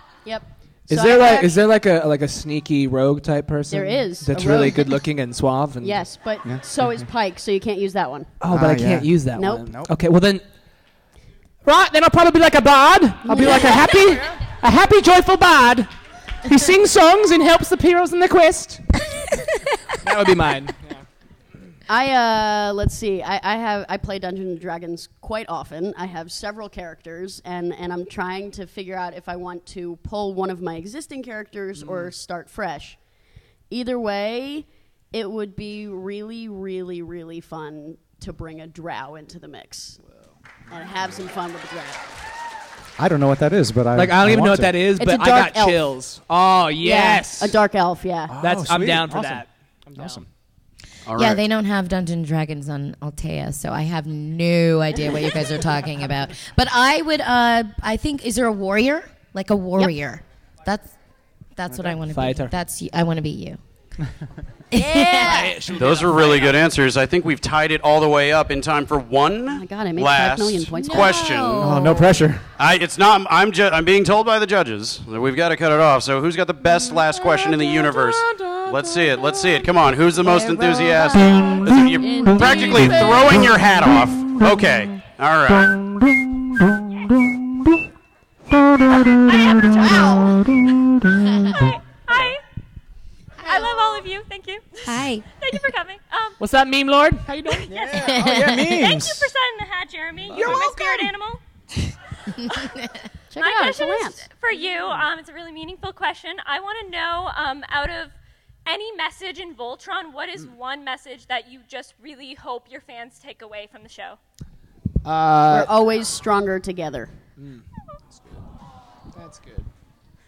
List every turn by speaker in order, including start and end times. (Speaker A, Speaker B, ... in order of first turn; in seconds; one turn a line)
Speaker A: 0.2-1.6
Speaker B: 0.9-6.0
Speaker A: 3.7-5.0
Speaker A: 5.8-8.3
Speaker C: 6.4-7.0
Speaker B: 8.4-10.4
Speaker C: 8.5-9.9
Speaker A: 9.3-9.7
Speaker B: 11.6-15.9
Speaker A: 13.2-14.2
Speaker B: 16.4-18.9
Speaker B: 20.0-21.0
Speaker A: 21.9-33.0
Speaker B: 31.8-32.1
Speaker A: 33.7-40.0
Speaker A: 40.7-42.1
Speaker C: 43.0-44.9
Speaker B: 43.9-47.6
Speaker A: 45.0-45.8
Speaker A: 46.8-48.3
Speaker C: 48.3-50.2
Speaker B: 48.4-50.3
Speaker D: 51.0-51.4
Speaker E: 51.1-60.9
Speaker E: 61.5-63.6
Speaker C: 61.7-62.0
Speaker B: 62.1-62.5
Speaker E: 64.7-65.5
Speaker A: 64.7-65.5
Speaker B: 65.2-66.6
Speaker D: 65.7-71.6
Speaker A: 69.5-72.0
Speaker E: 70.8-72.2
Speaker C: 71.5-72.5
Speaker D: 72.6-85.8
Speaker A: 80.2-83.5
Speaker F: 89.0-90.4
Speaker A: 89.8-90.4
Speaker E: 91.1-91.5
Speaker F: 91.5-92.4
Speaker F: 93.4-96.4
Speaker A: 93.5-93.9
Speaker E: 94.8-95.2
Speaker B: 96.4-98.2
Speaker F: 97.5-101.4
Speaker C: 97.7-99.3
Speaker E: 97.8-98.8
Speaker C: 100.3-100.7
Speaker B: 100.3-100.7
Speaker E: 102.4-103.0
Speaker A: 103.3-104.3
Speaker F: 103.4-108.1
Speaker F: 108.6-114.2
Speaker B: 115.0-115.7
Speaker A: 115.5-117.2
Speaker B: 117.4-117.6
Speaker B: 119.1-119.7